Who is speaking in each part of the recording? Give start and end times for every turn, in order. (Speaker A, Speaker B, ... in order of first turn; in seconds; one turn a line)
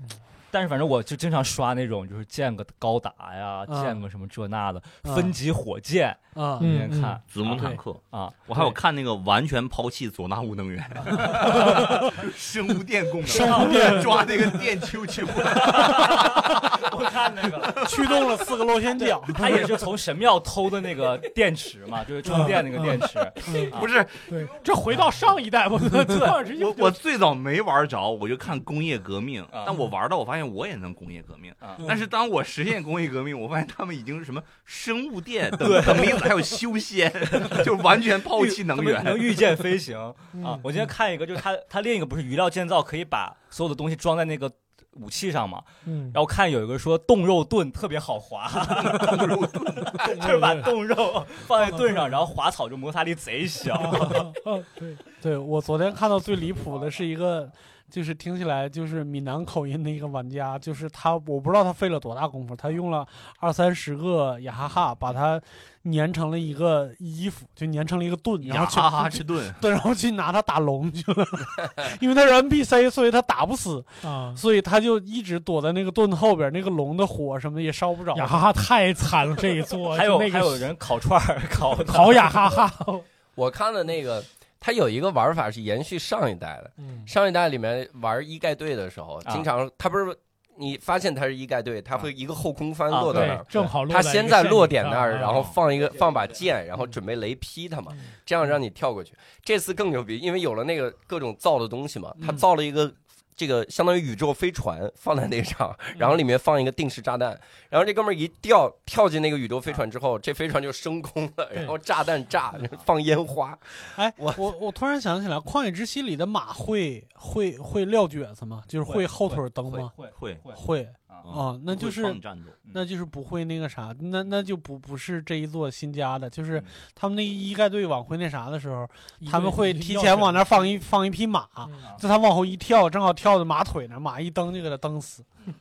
Speaker A: 0.5-8.7
Speaker B: 3.7-4.0
Speaker B: 5.0-5.3
Speaker B: 6.3-6.9
Speaker C: 6.6-7.2
Speaker D: 7.3-16.2
Speaker B: 7.5-7.8
Speaker A: 11.2-11.8
Speaker B: 13.2-14.4
Speaker A: 13.3-14.2
Speaker A: 15.4-18.2
Speaker B: 15.7-16.7
Speaker B: 17.8-19.7
Speaker A: 19.0-23.9
Speaker B: 22.3-23.7
Speaker C: 22.4-23.0
Speaker D: 23.7-24.4
Speaker C: 24.3-27.0
Speaker A: 26.1-26.4
Speaker D: 26.4-39.4
Speaker A: 29.5-29.8
Speaker A: 35.6-36.5
Speaker A: 37.3-49.3
Speaker C: 40.4-40.6
Speaker C: 45.9-46.2
Speaker D: 48.9-50.1
Speaker A: 49.8-54.3
Speaker C: 50.2-50.7
Speaker C: 53.8-55.0
Speaker B: 55.2-78.5
Speaker D: 68.4-69.6
Speaker C: 74.0-74.4
Speaker C: 78.1-80.7
Speaker A: 79.9-82.5
Speaker C: 81.8-83.0
Speaker E: 83.3-114.5
Speaker C: 86.8-87.1
Speaker A: 92.9-93.7
Speaker C: 93.1-95.5
Speaker B: 113.9-119.9
Speaker A: 118.8-121.2
Speaker D: 120.1-120.5
Speaker B: 120.5-135.2
Speaker D: 121.2-122.6
Speaker C: 129.2-130.5